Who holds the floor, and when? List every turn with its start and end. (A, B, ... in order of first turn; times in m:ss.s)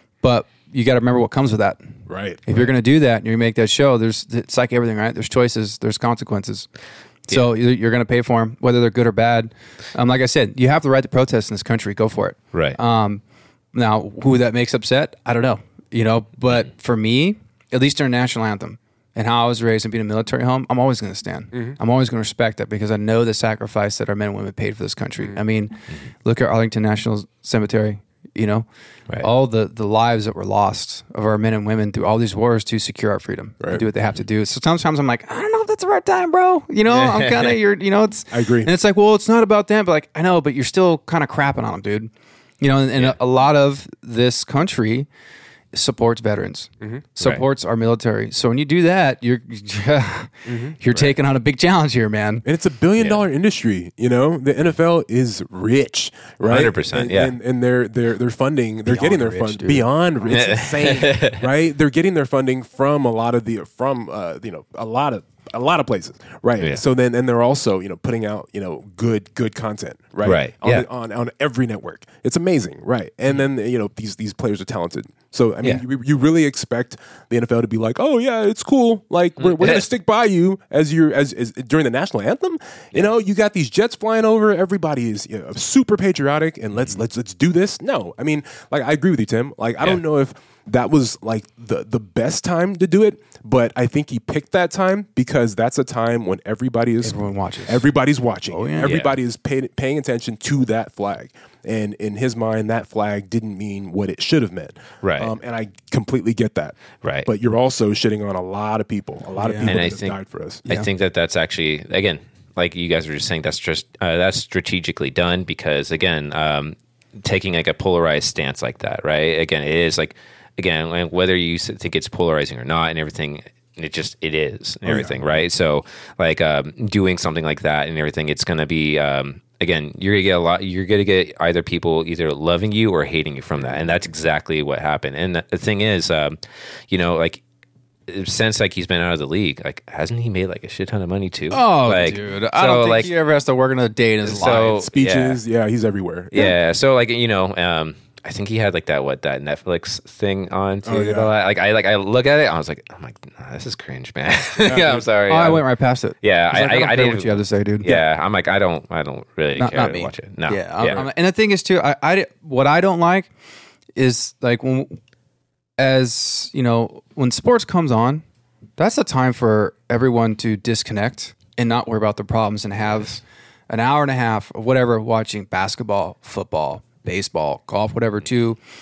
0:00.2-0:01.8 A
0:02.1-0:02.4 B
0:02.5-0:06.7 A
0:07.3-0:13.2 A
0:13.7-0:28.6 A
0:21.5-0:21.8 B
0:29.2-0:45.1 A
0:36.9-0:37.5 C
0:38.3-0:38.7 B
0:45.7-0:52.4 A
0:50.5-0:50.8 B
0:52.4-1:50.6 B
0:53.0-0:53.2 C
0:56.4-0:57.3 C
0:58.8-0:59.9 A
1:00.3-1:01.4 C
1:10.2-1:10.8 C
1:19.4-1:19.8 C
1:37.0-1:37.8 A
1:38.5-1:38.9 A
1:38.8-1:39.1 C
1:45.0-1:45.3 C
1:47.0-1:47.3 C
1:49.4-1:49.8 A
1:49.6-2:16.4 C
2:04.8-2:05.2 B
2:16.9-2:17.4 C
2:18.1-2:23.1 C
2:21.5-2:24.7 A
2:24.2-2:25.4 C
2:24.3-2:26.5 B
2:26.3-2:35.6 C
2:30.8-2:31.3 B
2:34.6-2:35.0 B
2:35.3-2:38.0 A
2:36.2-2:41.0 C
2:39.6-2:43.3 A
2:44.0-2:45.0 A
2:45.8-2:48.2 A
2:48.8-2:58.6 A